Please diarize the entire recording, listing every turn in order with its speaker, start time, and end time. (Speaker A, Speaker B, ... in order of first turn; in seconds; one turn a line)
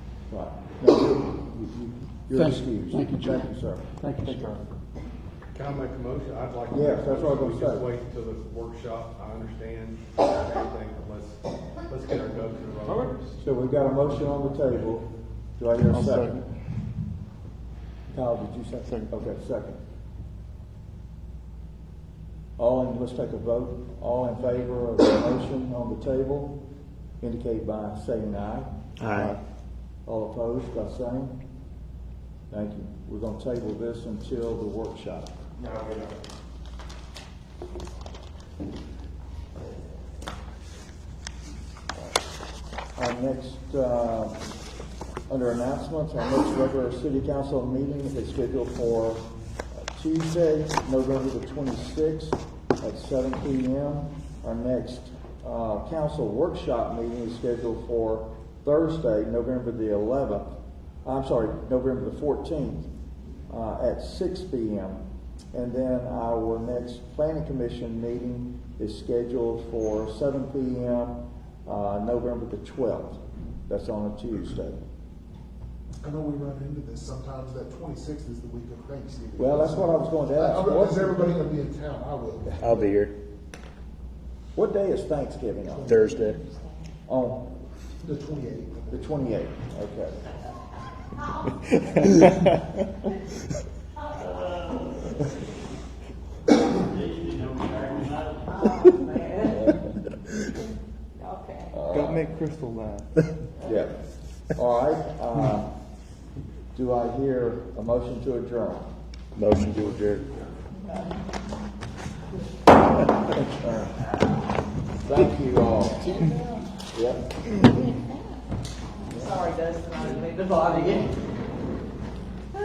Speaker A: 0.3-3.9
Speaker B: 2.3-4.5
Speaker C: 4.3-4.6
Speaker D: 5.5-13.3
Speaker A: 6.7-7.9
Speaker C: 12.9-13.1
Speaker A: 13.4-16.4
Speaker C: 15.9-16.5
Speaker A: 18.1-19.8
Speaker A: 22.6-26.6
Speaker A: 27.2-29.4
Speaker C: 29.0-29.3
Speaker A: 30.1-31.4
Speaker A: 32.5-35.3
Speaker C: 35.6-36.1
Speaker A: 43.0-44.5
Speaker A: 45.3-62.9
Speaker A: 63.5-65.0
Speaker A: 65.5-74.8
Speaker E: 76.0-82.9
Speaker A: 79.4-81.4
Speaker C: 82.6-83.1
Speaker A: 84.5-85.9
Speaker C: 85.9-86.4
Speaker F: 86.2-86.7
Speaker A: 87.1-87.4
Speaker E: 88.0-89.2
Speaker A: 88.9-90.2
Speaker F: 94.1-95.0
Speaker F: 98.4-99.7
Speaker F: 101.2-101.8
Speaker A: 101.7-102.3
Speaker C: 101.9-103.1
Speaker A: 103.6-105.7
Speaker A: 106.7-108.9
Speaker C: 109.4-110.3
Speaker A: 113.3-114.0
Speaker A: 115.0-116.4
Speaker A: 116.9-117.5
Speaker F: 119.1-121.1